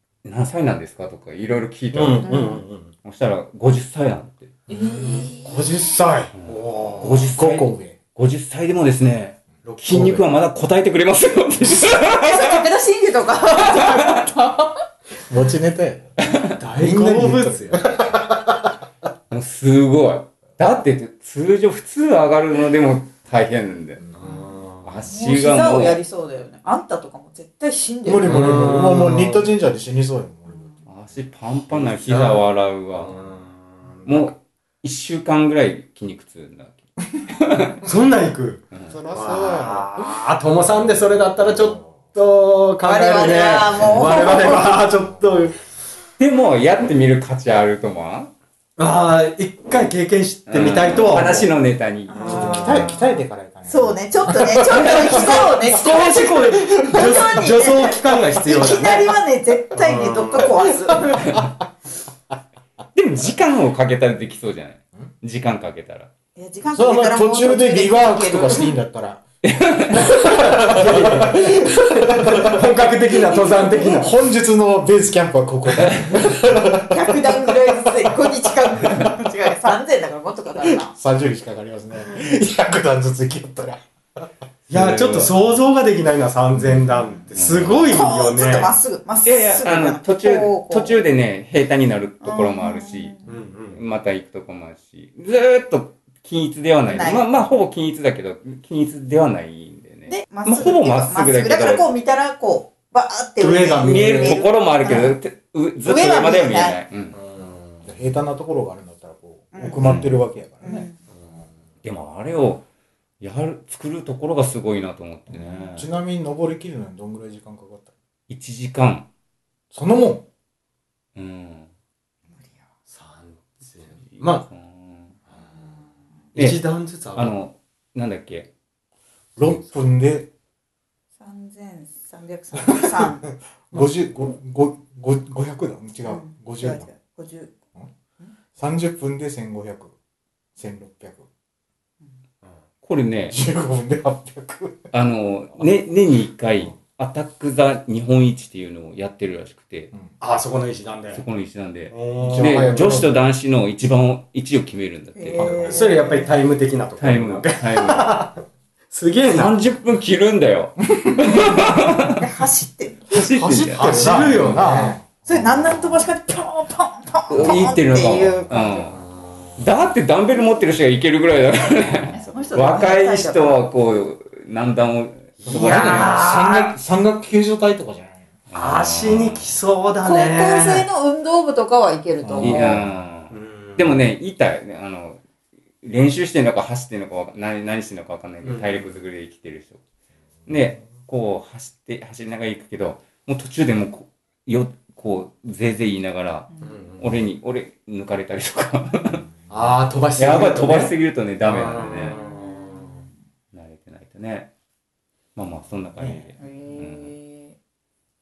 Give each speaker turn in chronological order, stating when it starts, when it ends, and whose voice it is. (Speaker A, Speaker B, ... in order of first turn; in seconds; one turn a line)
Speaker A: 0.2-2.4
Speaker B: 1.9-2.9
Speaker C: 2.2-2.6
Speaker A: 3.0-4.5
Speaker D: 4.7-5.3
Speaker C: 4.7-5.7
Speaker B: 5.4-7.3
Speaker A: 6.4-12.6
Speaker D: 7.2-8.0
Speaker B: 9.6-10.2
Speaker C: 12.0-14.8
Speaker A: 13.6-14.3
Speaker D: 15.3-16.1
Speaker A: 16.2-16.6
Speaker B: 16.6-17.8
Speaker D: 16.8-18.7
Speaker A: 19.3-24.0
Speaker B: 24.1-24.9
Speaker A: 24.8-26.0
Speaker C: 25.1-28.6
Speaker D: 28.1-30.7
Speaker B: 28.1-29.5
Speaker A: 30.9-33.1
Speaker B: 31.7-32.4
Speaker B: 32.9-34.3
Speaker A: 34.0-37.8
Speaker B: 37.8-45.6
Speaker D: 38.9-40.1
Speaker D: 40.8-42.0
Speaker C: 42.8-44.9
Speaker A: 46.2-48.3
Speaker B: 48.8-51.5
Speaker A: 50.5-52.5
Speaker C: 52.1-61.4
Speaker B: 52.1-53.0
Speaker D: 52.3-55.6
Speaker B: 54.8-59.1
Speaker D: 56.8-57.1
Speaker B: 59.8-60.5
Speaker A: 62.9-66.1
Speaker C: 66.4-68.7
Speaker D: 66.7-69.2
Speaker A: 69.4-70.1
Speaker D: 69.9-72.7
Speaker B: 70.0-74.1
Speaker D: 73.8-77.5
Speaker C: 76.8-80.9
Speaker D: 80.6-83.8
Speaker A: 84.7-85.3
Speaker B: 84.7-88.7
Speaker A: 87.3-88.0
Speaker C: 87.9-91.0
Speaker A: 89.2-93.1
Speaker C: 92.2-93.3
Speaker B: 93.2-93.8
Speaker A: 93.7-101.9
Speaker C: 96.9-97.2
Speaker C: 100.1-105.2
Speaker B: 103.4-104.4
Speaker A: 103.8-107.2
Speaker C: 105.8-106.8
Speaker B: 107.1-107.9
Speaker D: 107.8-110.9
Speaker C: 109.5-110.0
Speaker A: 109.8-110.1
Speaker C: 110.6-110.9
Speaker A: 111.8-112.6
Speaker A: 113.2-115.9
Speaker D: 115.3-117.9
Speaker A: 118.3-119.0
Speaker D: 119.7-120.2
Speaker A: 121.2-121.7
Speaker B: 122.9-124.4
Speaker A: 124.1-125.1
Speaker A: 126.3-126.6
Speaker B: 126.3-127.3
Speaker A: 127.1-128.5
Speaker D: 129.4-130.3
Speaker C: 131.2-133.3
Speaker D: 132.7-133.0
Speaker D: 133.7-136.9
Speaker C: 136.1-137.5
Speaker D: 138.6-139.9
Speaker D: 140.6-141.3
Speaker A: 142.8-143.4
Speaker D: 143.3-144.8
Speaker A: 144.9-149.9
Speaker B: 150.2-151.2
Speaker A: 151.1-155.7
Speaker B: 151.9-153.1
Speaker D: 152.2-153.2
Speaker C: 155.2-156.3
Speaker D: 155.4-155.7
Speaker B: 155.5-159.5
Speaker A: 157.0-158.2
Speaker A: 159.3-162.2
Speaker D: 161.0-161.5
Speaker C: 161.4-163.0
Speaker A: 163.1-164.3
Speaker D: 163.2-165.8
Speaker B: 163.7-165.0
Speaker C: 165.2-168.9
Speaker A: 167.3-168.9
Speaker B: 168.9-169.4
Speaker A: 169.6-176.2
Speaker C: 172.1-173.6
Speaker B: 175.4-176.8
Speaker D: 175.5-178.2
Speaker A: 178.5-179.5
Speaker B: 178.5-180.8
Speaker C: 180.0-182.8
Speaker D: 182.2-182.8
Speaker A: 182.4-185.2
Speaker B: 183.3-184.0
Speaker A: 185.8-189.8
Speaker B: 188.4-188.8
Speaker A: 190.5-199.2
Speaker B: 196.6-197.0
Speaker B: 199.5-200.9
Speaker A: 200.2-202.2
Speaker B: 201.4-203.0
Speaker C: 202.1-203.0
Speaker A: 203.5-204.5
Speaker A: 205.4-207.1
Speaker C: 206.4-207.5